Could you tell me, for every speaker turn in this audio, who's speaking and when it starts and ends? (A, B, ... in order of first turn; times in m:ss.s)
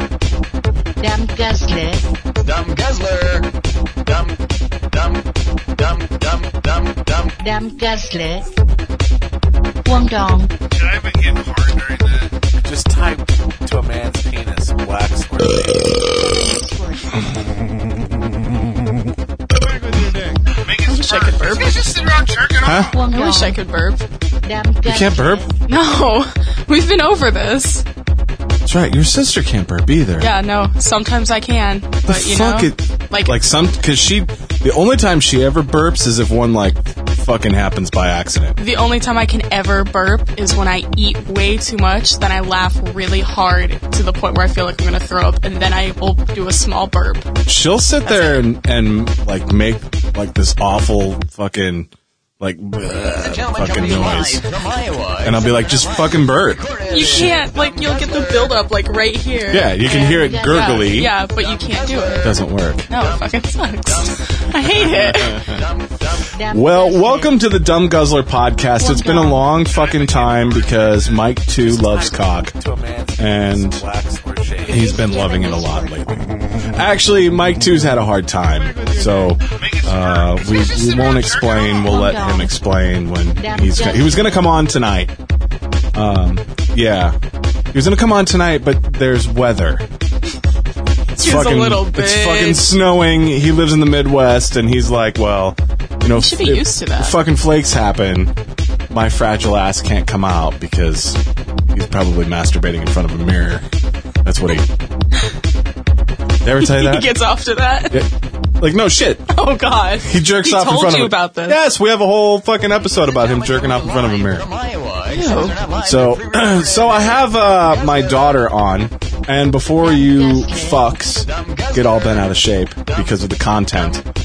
0:01.0-0:02.0 A
0:02.4-0:03.5 B
0:04.0-0:07.4 B
0:07.4-0:08.4 A
0:09.8-0:10.5 A
0:10.7-0:12.3 C
0:12.6-0:16.2 D
0:16.1-0:17.3 A
0:19.5-0:22.9 C
0:20.8-0:21.9 E
0:22.6-0:22.9 F
0:22.9-0:23.6 A
0:23.0-0:24.0 E
0:24.4-0:25.5 A
0:24.8-0:25.4 F
0:25.7-0:27.8 E
0:28.6-0:30.3 F
0:30.2-0:33.3 E
0:32.0-0:38.6 F
0:38.6-0:47.3 E
0:47.4-0:54.5 F
0:48.0-0:48.4 E
0:52.9-0:58.6 B
0:55.2-0:57.4 F
0:56.9-1:02.4 E
0:59.5-1:01.1 F
0:59.8-1:01.0 A
1:01.2-1:06.3 B
1:02.2-1:02.9 F
1:02.9-1:05.4 E
1:04.7-1:05.6 F
1:06.3-1:07.4 A
1:06.5-1:12.5 F
1:08.8-1:09.4 A
1:09.6-1:11.4 C
1:11.5-1:15.0 D
1:13.2-1:13.8 F
1:14.7-1:25.1 F
1:14.7-1:16.0 A
1:18.6-1:22.0 C
1:21.8-1:22.5 A
1:23.4-1:24.4 A
1:25.9-1:27.2 F
1:27.7-1:29.8 F
1:31.1-1:32.7 E
1:31.2-1:38.3 F
1:36.1-1:37.2 E
1:38.9-1:43.6 F
1:44.2-1:44.7 F
1:46.4-1:47.1 F
1:46.6-1:48.0 E
1:47.9-1:49.3 F
1:49.3-1:51.6 E
1:50.0-1:54.4 F
1:52.9-1:58.5 B
1:55.1-1:55.6 E
1:55.8-2:04.0 F
1:59.8-2:00.8 A
2:01.2-2:03.2 B
2:03.7-2:04.0 B